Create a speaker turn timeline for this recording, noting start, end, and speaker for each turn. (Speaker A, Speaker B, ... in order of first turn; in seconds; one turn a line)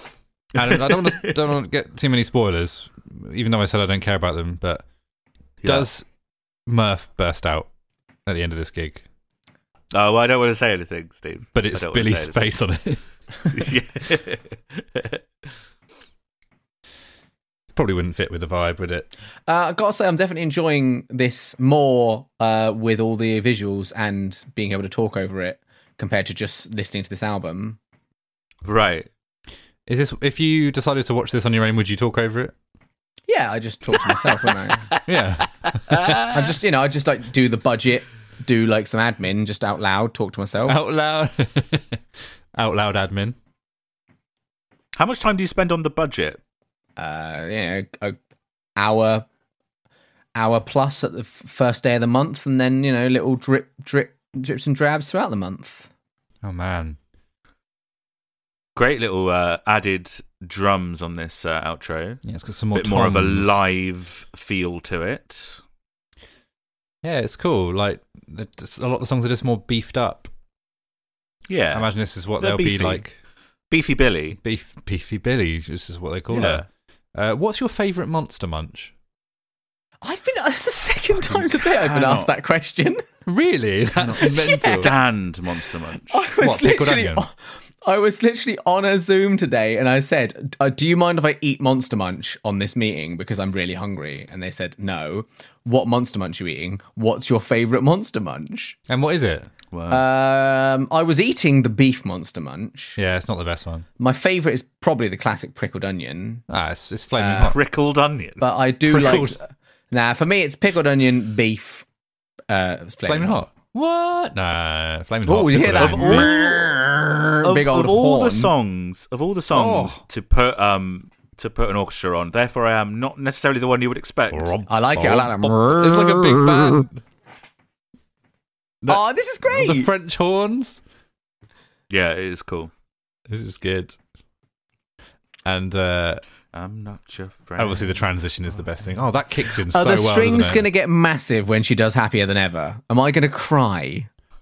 Speaker A: 0.6-4.8
Speaker B: 0.6-1.4
Speaker B: 5.6-5.9
Speaker A: 5.6-6.1
Speaker A: 6.7-7.7
Speaker A: 8.3-9.0
Speaker B: 9.9-12.4
Speaker A: 11.6-13.0
Speaker B: 13.5-15.2
Speaker A: 17.7-19.1
Speaker C: 19.5-27.8
Speaker B: 28.6-29.1
Speaker A: 29.9-32.5
Speaker C: 33.3-34.9
Speaker A: 35.1-36.3
Speaker B: 35.6-36.4
Speaker C: 36.3-40.8
Speaker A: 40.7-42.0
Speaker A: 42.5-43.4
Speaker B: 45.0-46.4
Speaker C: 47.0-48.2
Speaker C: 48.8-49.3
Speaker C: 50.4-55.9
Speaker A: 56.4-57.0
Speaker B: 58.8-62.2
Speaker A: 62.2-63.6
Speaker B: 62.7-65.6
Speaker A: 67.0-70.3
Speaker B: 71.5-73.0
Speaker A: 71.7-73.1
Speaker B: 73.7-74.4
Speaker A: 74.4-78.9
Speaker B: 76.3-76.7
Speaker C: 80.0-83.0
Speaker B: 81.3-82.3
Speaker A: 83.3-84.9
Speaker C: 84.0-85.0
Speaker B: 84.1-86.2
Speaker C: 86.0-98.8
Speaker A: 86.4-87.3
Speaker A: 98.9-99.5
Speaker B: 99.7-100.1
Speaker C: 99.9-103.0
Speaker A: 103.0-103.9
Speaker C: 104.0-106.5
Speaker A: 106.5-107.6
Speaker C: 107.2-107.6
Speaker B: 107.4-109.1
Speaker C: 108.4-111.9
Speaker A: 108.9-109.4
Speaker C: 112.5-113.4
Speaker A: 113.0-116.3
Speaker C: 115.2-118.5
Speaker B: 115.6-116.6
Speaker B: 117.4-124.5
Speaker A: 119.5-120.0
Speaker A: 124.3-127.0
Speaker C: 124.7-126.8
Speaker A: 128.8-130.8
Speaker C: 128.9-129.9
Speaker B: 131.9-132.7
Speaker A: 133.3-134.0
Speaker A: 135.4-136.2
Speaker B: 136.5-138.0
Speaker A: 137.6-140.7
Speaker C: 139.6-144.1